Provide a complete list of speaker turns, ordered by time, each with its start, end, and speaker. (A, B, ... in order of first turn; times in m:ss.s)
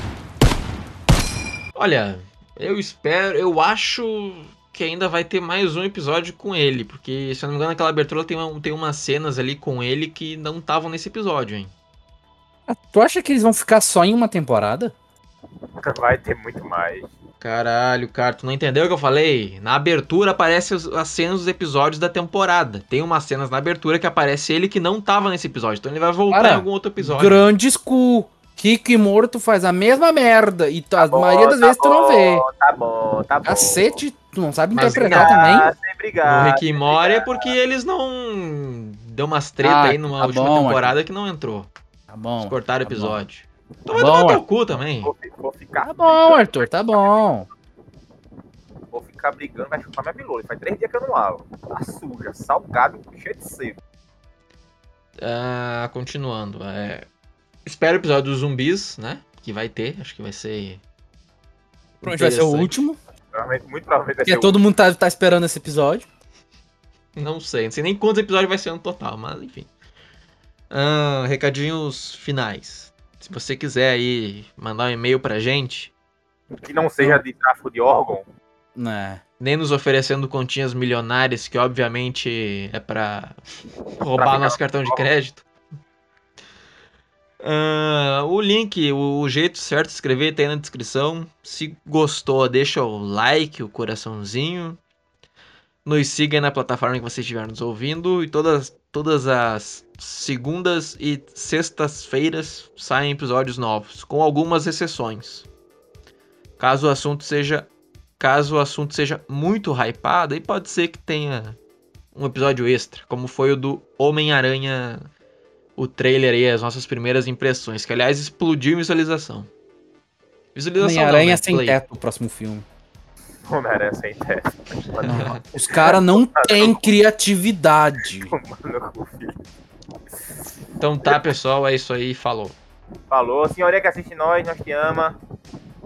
0:01.8-0:11.7 A
0:12.7-0:15.0 B
0:15.8-0:17.1 C
0:17.4-0:27.5 A
0:26.3-0:32.4 B
0:31.0-0:34.0 C
0:33.4-0:35.7 B
0:34.7-0:35.6 A
0:34.8-0:37.4 C
0:36.2-0:41.7 A
0:39.6-0:40.9 B
0:42.1-0:43.2 B
0:42.4-0:45.1 A
0:43.9-0:44.4 B
0:44.8-0:47.2 C
0:45.8-0:47.5 B
0:48.9-0:53.8 C
0:55.2-0:57.1 A
0:57.7-1:00.8 A
1:02.0-1:02.8 A
1:02.0-1:03.0 B
1:03.3-1:04.6 C
1:04.2-1:06.1 B
1:07.2-1:09.7 A
1:10.7-1:15.9 A
1:16.6-1:18.2 C
1:18.8-1:19.2 B
1:19.4-1:23.4 A
1:24.0-1:25.4 A
1:24.2-1:25.0 C
1:27.4-1:34.8 A
1:35.8-1:45.5 A
1:46.6-1:51.6 A
1:52.1-1:55.1 A
1:55.8-1:59.5 A
2:00.6-2:01.8 A
2:00.8-2:02.7 B
2:03.5-2:06.9 C
2:05.0-2:08.3 B
2:05.0-2:05.4 A
2:08.3-2:09.3 C
2:10.8-2:12.6 A
2:13.1-2:15.2 C